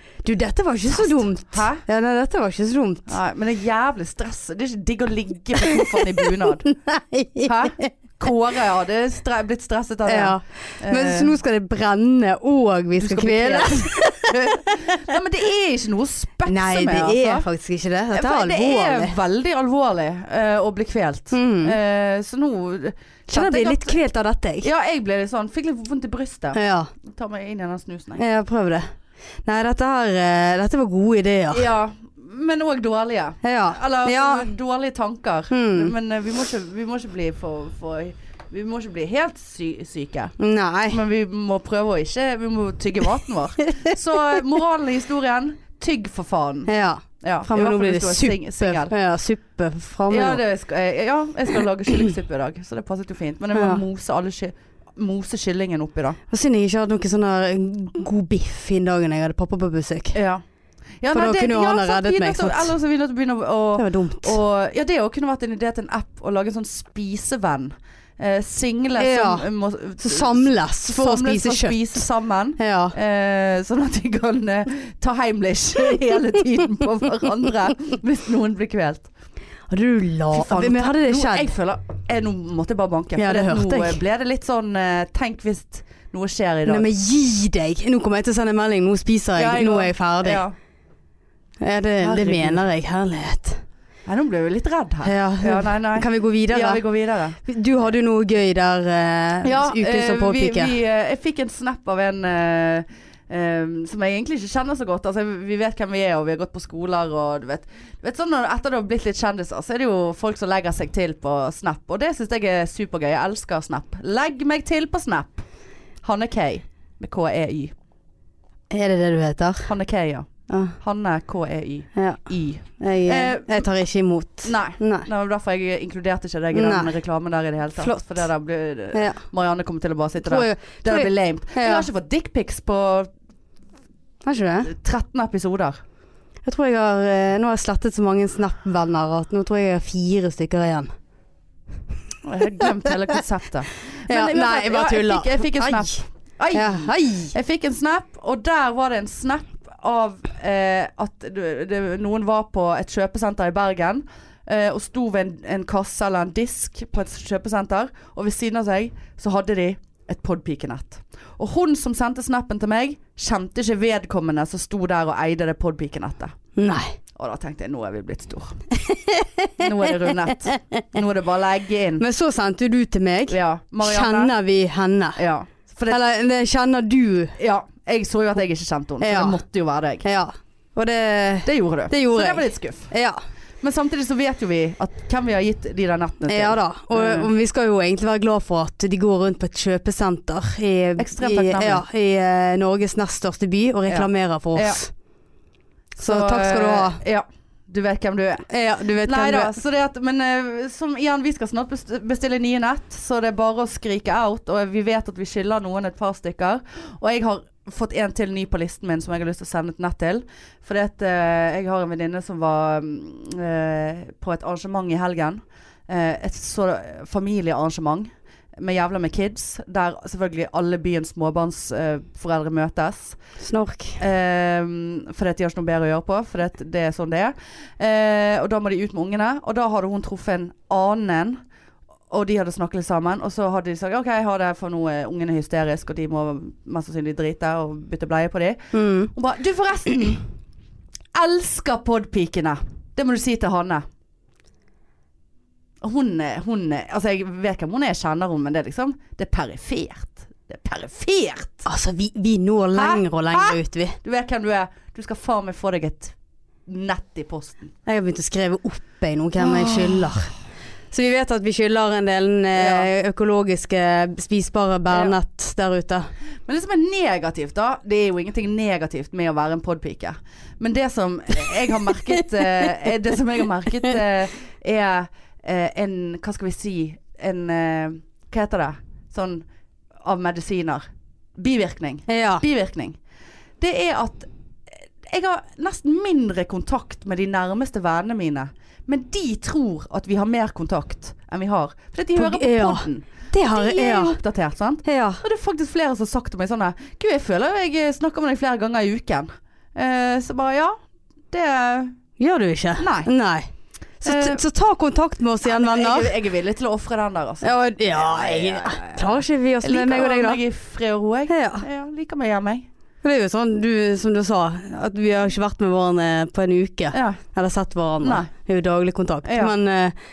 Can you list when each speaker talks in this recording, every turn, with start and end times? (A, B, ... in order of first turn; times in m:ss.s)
0:00.2-0:03.1 A
0:00.9-0:01.8 B
0:03.1-0:06.6 B
0:05.7-0:06.0 A
0:06.6-0:07.9 A
0:07.4-0:11.4 B
0:10.0-0:14.8 A
0:13.0-0:17.4 B
0:16.4-0:19.2 A
0:18.1-0:24.0 B
0:21.3-0:21.8 A
0:23.3-0:24.7 A
0:24.6-0:28.2 B
0:26.5-0:26.9 A
0:28.2-0:28.9 A
0:29.4-0:31.7 A
0:31.5-0:40.3 B
0:33.4-0:34.5 A
0:35.5-0:35.9 A
0:40.4-0:41.0 A
0:40.9-0:46.7 B
0:46.7-0:50.4 A
0:47.2-0:48.9 B
0:50.1-0:56.2 B
0:53.5-0:53.8 A
0:56.3-1:00.2 A
1:00.1-1:00.4 B
1:01.0-1:19.1 B
1:01.1-1:02.7 A
1:03.8-1:04.4 A
1:09.0-1:09.5 A
1:10.0-1:12.0 A
1:12.6-1:13.0 A
1:19.7-1:21.5 A
1:20.3-1:26.8 B
1:23.2-1:24.0 A
1:26.6-1:30.4 A
1:29.4-1:30.5 B
1:31.6-1:33.6 A
1:32.0-1:32.6 B
1:34.0-1:37.4 B
1:35.0-1:36.8 A
1:37.4-1:40.7 A
1:39.4-1:55.4 B
1:56.0-1:57.7 B
1:58.7-1:59.7 A
1:59.6-2:00.3 B
2:00.5-2:00.8 A
2:00.8-2:03.7 B
2:01.9-2:02.2 A
2:02.8-2:05.1 A
2:04.4-2:13.1 B
2:06.5-2:06.9 A
2:07.8-2:08.1 A
2:08.9-2:09.2 A
2:10.2-2:11.9 A
2:14.2-2:14.7 A
2:14.6-2:15.8 B
2:16.4-2:20.9 A
2:22.2-2:46.4 B
2:24.1-2:27.3 A
2:46.6-2:47.0 A
2:47.1-2:48.6 B
2:48.8-2:50.9 A
2:49.6-2:52.0 B
2:52.0-2:55.2 A
2:53.3-2:54.3 B
2:55.2-2:56.0 B
2:55.9-2:57.3 A
2:57.4-3:00.0 B
2:59.0-2:59.4 A
3:00.0-3:03.2 A
3:01.4-3:02.9 B
3:03.6-3:07.3 B
3:06.3-3:14.9 A
3:11.0-3:11.8 B
3:13.9-3:14.8 B
3:16.0-3:17.0 A
3:16.0-3:18.5 B
3:18.5-3:19.6 A
3:19.0-3:43.2 B
3:43.4-3:44.0 A
3:44.0-3:51.4 B
3:52.1-4:00.2 B
3:58.7-3:59.1 A
4:01.1-4:03.8 B
4:05.8-4:11.6 B
4:11.6-4:14.0 A
4:12.7-4:16.1 B
4:16.6-4:17.7 B
4:17.8-4:20.3 A
4:19.4-4:20.2 B
4:20.9-4:26.1 A
4:22.5-4:22.9 B
4:24.9-4:25.2 B
4:26.4-4:39.4 B
4:40.0-4:40.8 B
4:41.4-4:43.0 B
4:42.1-4:42.4 A
4:43.6-4:44.3 B
4:45.0-5:00.8 B
4:52.2-4:54.2 A
4:54.8-4:55.2 A
5:01.3-5:02.0 B
5:02.2-5:03.5 A
5:02.8-5:03.1 B
5:04.0-5:06.1 A
5:04.0-5:04.4 B
5:05.4-5:12.7 B
5:07.4-5:10.4 A
5:11.3-5:11.6 A
5:13.0-5:19.9 A
5:16.9-5:17.2 B
5:18.0-5:18.3 B
5:19.2-5:19.5 B